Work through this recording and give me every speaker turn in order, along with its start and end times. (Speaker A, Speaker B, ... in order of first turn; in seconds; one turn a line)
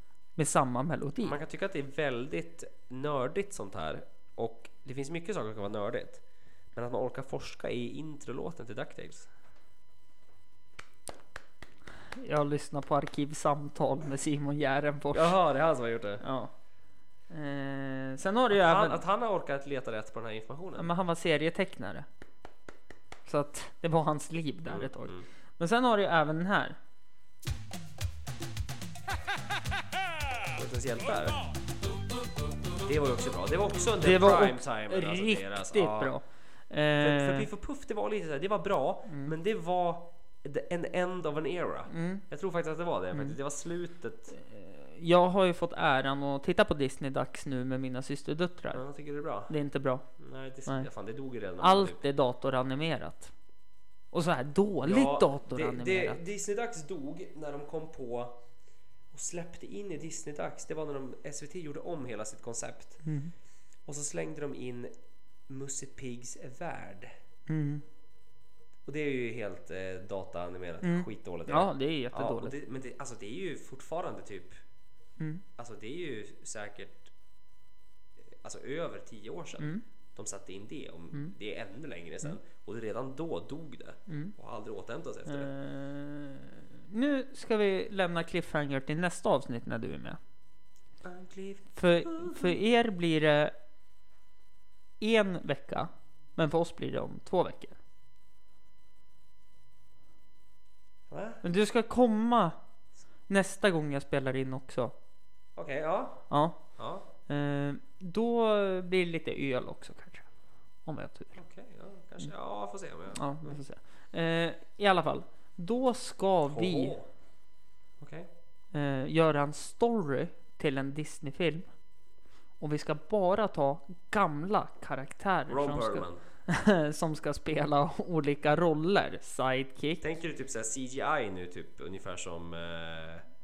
Speaker A: 0.4-1.4
Speaker B: 1.2-6.2
Speaker B: 6.7-9.3
Speaker A: 12.2-15.4
Speaker B: 15.1-16.2
Speaker A: 16.2-16.5
Speaker A: 17.3-19.0
Speaker B: 18.5-20.9
Speaker A: 20.8-22.1
Speaker A: 23.3-26.8
Speaker B: 24.7-25.3
Speaker B: 30.5-31.4
Speaker B: 32.8-36.1
Speaker A: 34.0-37.5
Speaker B: 37.0-44.3
Speaker A: 39.1-39.3
Speaker A: 41.9-42.2
Speaker A: 44.3-48.8
Speaker B: 48.7-49.5
Speaker A: 49.5-50.0
Speaker B: 50.2-52.0
Speaker A: 51.6-53.3
Speaker A: 54.1-56.2
Speaker B: 54.8-58.4
Speaker B: 59.1-63.0
Speaker A: 63.0-63.3
Speaker B: 63.9-64.9
Speaker B: 65.5-67.1
Speaker A: 67.5-67.8
Speaker B: 68.9-74.6
Speaker A: 70.8-72.6
Speaker B: 75.6-77.1
Speaker B: 78.3-85.5
Speaker A: 79.6-79.8
Speaker A: 84.1-84.3
Speaker A: 85.3-90.2
Speaker B: 91.0-92.6
Speaker A: 91.8-93.5
Speaker A: 95.0-97.8
Speaker B: 101.1-101.4
Speaker A: 101.4-102.6
Speaker A: 103.3-104.9
Speaker B: 105.5-107.1
Speaker A: 106.3-106.6
Speaker A: 107.3-110.2
Speaker A: 110.8-111.4
Speaker B: 111.3-113.6
Speaker A: 113.1-117.0
Speaker B: 116.5-117.1
Speaker B: 118.0-118.3
Speaker A: 118.7-121.7
Speaker A: 122.6-130.1
Speaker B: 125.5-126.2
Speaker B: 130.0-133.3